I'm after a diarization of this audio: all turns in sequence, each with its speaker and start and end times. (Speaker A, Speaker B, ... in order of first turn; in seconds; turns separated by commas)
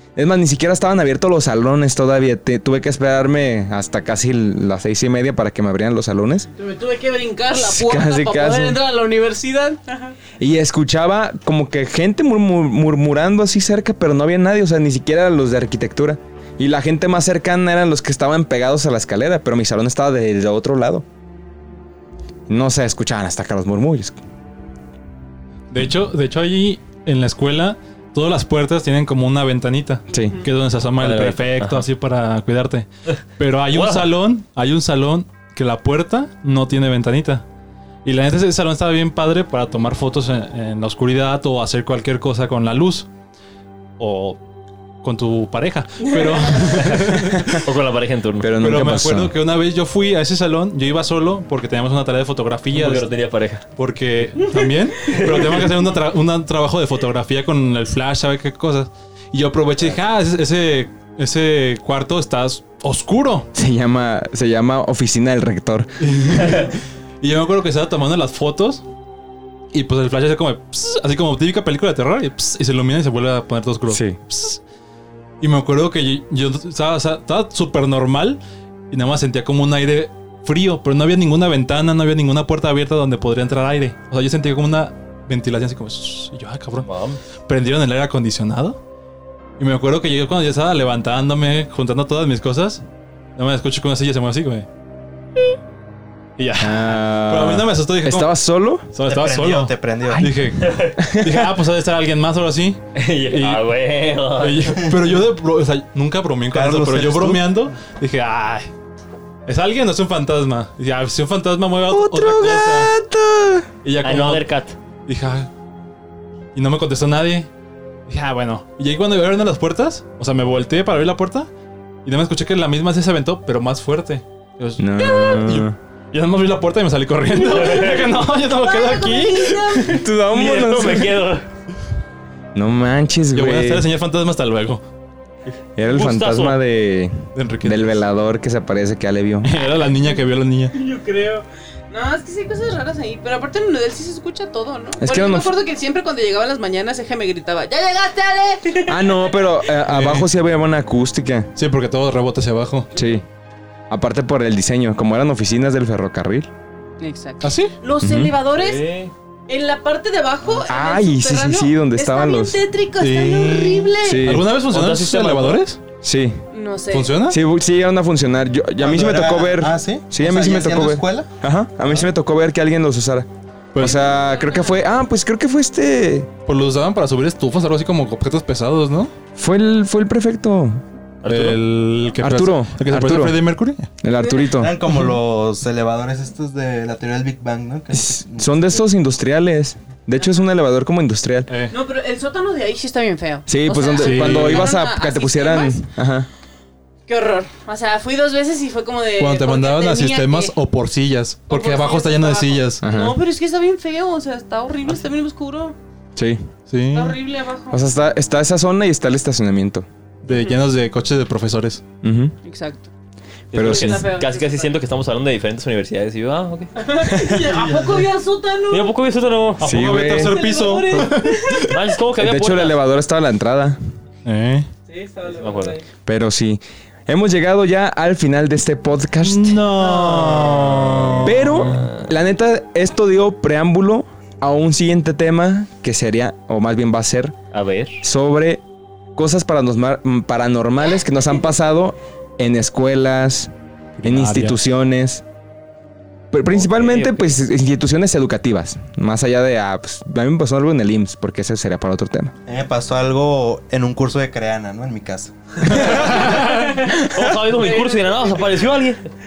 Speaker A: 0.1-6.5, Speaker B: 6.5-10.1, Speaker A: 7.6-8.8, Speaker A: 10.4-21.0, Speaker A: 22.5-24.2, Speaker C: 25.7-37.4, Speaker A: 30.1-30.4, Speaker D: 31.0-31.9, Speaker D: 33.7-34.1, Speaker C: 38.0-43.1, Speaker C: 44.0-44.4, Speaker C: 45.0-47.6, Speaker B: 46.1-46.7, Speaker D: 47.5-48.5, Speaker A: 48.4-49.3, Speaker C: 48.6-53.1, Speaker D: 52.7-53.6, Speaker C: 53.8-63.5, Speaker D: 55.0-55.7, Speaker A: 63.5-65.9, Speaker C: 66.0-68.8, Speaker C: 69.7-74.6, Speaker A: 73.9-74.2, Speaker C: 75.4-78.4, Speaker C: 78.9-86.9, Speaker D: 86.8-87.2, Speaker C: 87.5-88.8, Speaker C: 89.6-92.8, Speaker C: 93.3-94.7, Speaker C: 96.4-98.3, Speaker A: 96.6-98.9, Speaker C: 98.9-103.6, Speaker E: 99.0-100.2, Speaker A: 100.1-101.5, Speaker D: 100.6-101.0, Speaker D: 102.9-104.8, Speaker C: 104.4-108.7, Speaker E: 106.5-107.7, Speaker C: 109.5-112.9, Speaker A: 111.9-113.7, Speaker C: 113.8-114.5, Speaker D: 114.0-114.8, Speaker C: 115.0-115.5, Speaker C: 116.5-117.5, Speaker C: 118.1-121.5, Speaker C: 122.0-130.0, Speaker A: 124.8-125.8, Speaker B: 127.4-130.0, Speaker D: 127.5-128.0, Speaker A: 129.8-131.1, Speaker D: 130.3-131.4, Speaker A: 132.5-133.8, Speaker C: 133.3-134.8, Speaker A: 135.8-139.6, Speaker D: 135.9-136.6, Speaker C: 136.0-136.5, Speaker C: 137.3-138.0, Speaker C: 139.4-140.8, Speaker B: 140.7-149.2, Speaker A: 145.0-145.5, Speaker A: 148.9-151.5, Speaker C: 149.9-150.2, Speaker C: 151.6-152.9, Speaker A: 152.9-153.2, Speaker A: 153.9-156.5, Speaker B: 157.0-158.8, Speaker C: 157.4-157.7, Speaker A: 158.0-158.3, Speaker D: 158.5-159.1, Speaker B: 159.5-164.3, Speaker A: 160.7-162.6, Speaker C: 163.0-165.8, Speaker A: 164.0-164.5, Speaker D: 164.7-165.6, Speaker A: 166.0-166.4, Speaker B: 166.5-167.2, Speaker C: 166.9-167.4, Speaker A: 167.3-176.3, Speaker E: 168.8-171.3, Speaker C: 173.7-174.0, Speaker B: 173.8-174.8, Speaker C: 176.4-179.1, Speaker A: 179.3-180.8, Speaker D: 181.2-181.6, Speaker C: 181.2-183.9, Speaker A: 182.2-183.4, Speaker A: 184.0-184.8, Speaker E: 184.5-188.8, Speaker A: 187.9-191.5, Speaker C: 191.5-191.7, Speaker B: 191.7-195.9, Speaker A: 193.5-196.3, Speaker C: 194.0-194.8, Speaker B: 197.1-200.5, Speaker C: 199.2-202.9, Speaker B: 201.5-205.8, Speaker A: 202.8-203.2, Speaker A: 206.2-206.5, Speaker C: 206.7-207.2, Speaker B: 206.8-207.8, Speaker A: 207.7-209.8, Speaker C: 210.2-211.8, Speaker B: 210.3-210.6, Speaker A: 212.0-212.3, Speaker B: 212.4-212.9, Speaker D: 213.5-216.8, Speaker A: 213.5-214.0, Speaker B: 213.5-214.7, Speaker B: 216.8-218.9, Speaker E: 217.5-218.1, Speaker D: 218.7-219.7, Speaker A: 219.6-220.4, Speaker C: 219.6-221.7, Speaker B: 220.2-221.8, Speaker D: 221.6-222.8, Speaker A: 222.2-223.8, Speaker C: 224.2-224.7, Speaker B: 224.9-225.8, Speaker D: 225.3-225.8, Speaker A: 226.1-229.7, Speaker C: 229.2-231.7, Speaker B: 229.7-230.8, Speaker A: 231.2-237.3, Speaker D: 231.6-232.1, Speaker D: 237.5-238.0, Speaker A: 238.0-238.6, Speaker A: 239.2-243.5, Speaker C: 244.0-244.6, Speaker A: 244.0-245.2, Speaker A: 246.3-252.3, Speaker D: 246.5-247.4, Speaker E: 252.5-256.0, Speaker A: 255.7-256.1, Speaker D: 255.7-259.0, Speaker B: 256.4-258.5, Speaker A: 256.9-257.3